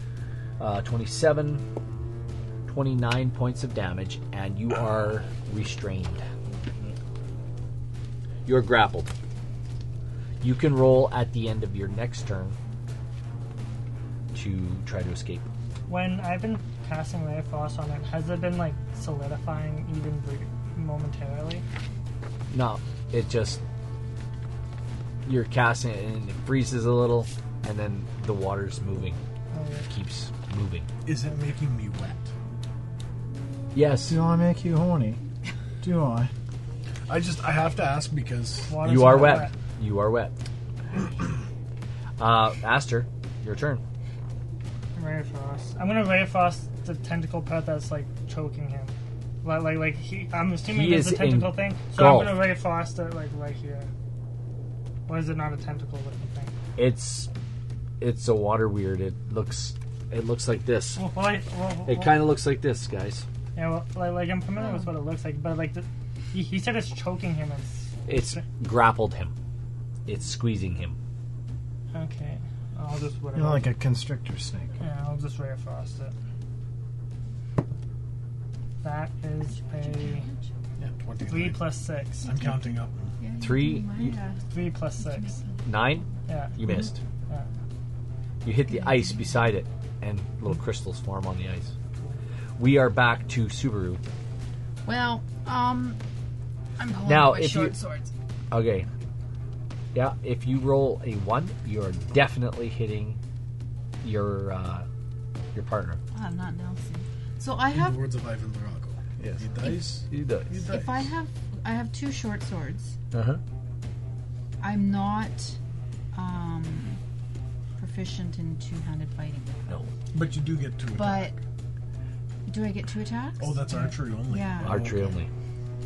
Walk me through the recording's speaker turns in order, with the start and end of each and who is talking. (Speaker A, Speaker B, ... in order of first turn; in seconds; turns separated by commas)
Speaker A: 0.6-1.6, Speaker A: 2.7-6.2, Speaker A: 8.4-9.1, Speaker A: 10.4-12.6, Speaker A: 14.3-15.5, Speaker B: 15.9-21.6, Speaker A: 22.5-23.6, Speaker A: 25.2-29.2, Speaker B: 29.5-29.9, Speaker A: 29.9-30.9, Speaker C: 31.0-32.3, Speaker A: 33.7-34.2, Speaker D: 34.0-35.2, Speaker D: 35.8-36.3, Speaker C: 37.1-39.3, Speaker B: 38.7-39.5, Speaker A: 38.8-40.3, Speaker A: 42.2-43.8, Speaker B: 45.0-53.9, Speaker A: 50.7-52.5, Speaker B: 55.1-56.5, Speaker A: 56.8-57.3, Speaker A: 58.0-61.0, Speaker B: 61.0-62.2, Speaker A: 61.9-63.2, Speaker B: 63.5-68.4, Speaker A: 68.1-69.3, Speaker A: 70.1-71.0, Speaker B: 71.9-73.7, Speaker D: 73.3-74.8, Speaker B: 74.8-76.1, Speaker B: 78.8-80.3, Speaker E: 79.5-80.4, Speaker C: 80.8-81.7, Speaker B: 81.3-82.3, Speaker C: 82.2-83.2, Speaker E: 82.2-85.7, Speaker A: 83.4-84.2, Speaker B: 84.5-85.3, Speaker A: 85.6-87.0, Speaker B: 86.3-86.6, Speaker A: 88.4-91.7, Speaker E: 88.7-89.4, Speaker A: 92.6-94.0, Speaker E: 94.8-96.0, Speaker E: 96.8-98.1, Speaker A: 97.0-97.7, Speaker A: 98.5-98.9, Speaker A: 99.9-103.2, Speaker A: 104.0-104.8, Speaker A: 105.5-106.0, Speaker E: 106.1-108.1, Speaker C: 107.7-111.1, Speaker A: 109.2-110.6, Speaker E: 110.6-113.0, Speaker A: 113.1-113.4, Speaker E: 114.6-115.6, Speaker E: 116.1-117.0, Speaker E: 117.8-119.7, Speaker C: 120.1-121.3, Speaker E: 120.9-121.3, Speaker E: 122.5-123.6, Speaker C: 123.4-125.2, Speaker E: 124.1-125.1, Speaker A: 124.6-125.3